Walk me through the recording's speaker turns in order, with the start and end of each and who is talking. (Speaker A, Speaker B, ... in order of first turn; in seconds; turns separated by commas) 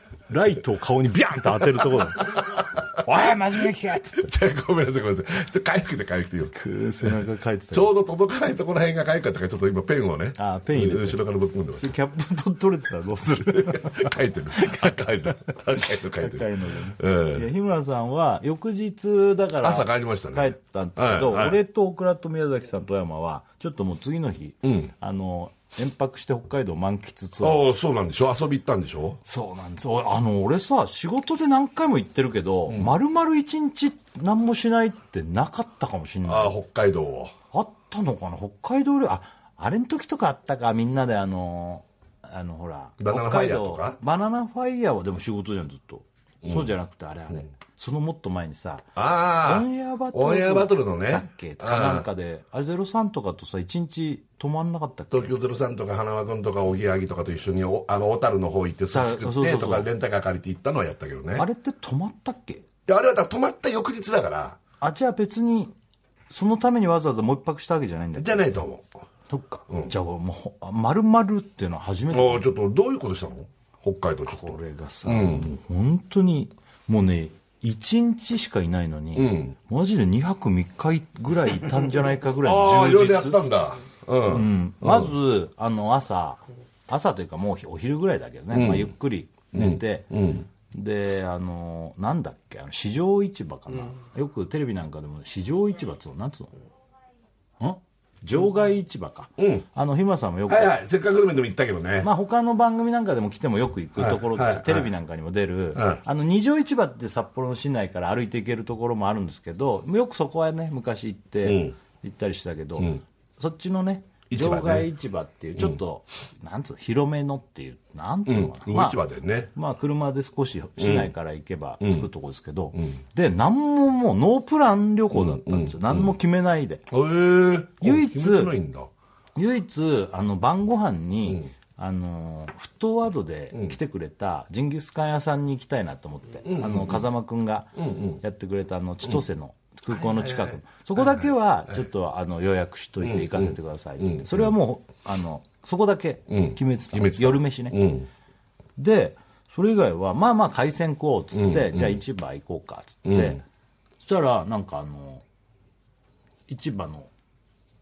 Speaker A: 0.3-4.3, Speaker B: 2.0-2.9, Speaker B: 4.2-7.2, Speaker A: 6.5-7.9, Speaker B: 7.7-11.9, Speaker A: 10.4-11.2, Speaker A: 11.8-27.6, Speaker B: 13.4-17.5, Speaker B: 19.6-21.6, Speaker B: 24.6-24.9, Speaker B: 27.4-29.2, Speaker A: 29.2-36.5, Speaker B: 32.7-33.0, Speaker B: 36.2-37.3, Speaker A: 37.5-48.9, Speaker B: 43.0-44.0, Speaker B: 46.4-46.7, Speaker B: 49.0-52.1, Speaker A: 49.4-55.4, Speaker B: 55.1-61.5, Speaker A: 58.9-59.9, Speaker A: 61.4-62.6, Speaker B: 62.9-64.6, Speaker A: 64.8-65.7, Speaker A: 66.3-68.6, Speaker B: 68.2-68.9, Speaker A: 69.3-72.5, Speaker B: 69.7-69.9, Speaker B: 72.1-75.6, Speaker A: 74.3-83.4, Speaker B: 79.2-79.5, Speaker B: 82.4-85.2, Speaker A: 84.3-90.1, Speaker B: 88.5-88.9, Speaker B: 89.5-90.5, Speaker A: 90.7-96.5, Speaker A: 97.6-100.7, Speaker B: 99.4-99.7, Speaker B: 100.5-102.1, Speaker A: 102.0-119.0, Speaker B: 104.0-104.9, Speaker B: 105.8-106.0, Speaker B: 111.4-111.8, Speaker B: 114.3-114.9, Speaker B: 118.3-119.5, Speaker A: 119.5-126.8, Speaker B: 120.8-121.1, Speaker B: 121.8-122.1, Speaker B: 125.1-126.1, Speaker B: 126.9-128.9, Speaker A: 127.8-128.5, Speaker A: 129.4-147.8, Speaker B: 136.4-137.1, Speaker B: 137.8-138.2, Speaker B: 139.9-141.9, Speaker B: 143.0-144.5, Speaker B: 146.3-148.1, Speaker A: 148.8-153.4, Speaker B: 151.3-152.0, Speaker B: 153.1-153.4, Speaker A: 154.0-155.2, Speaker A: 156.5-157.1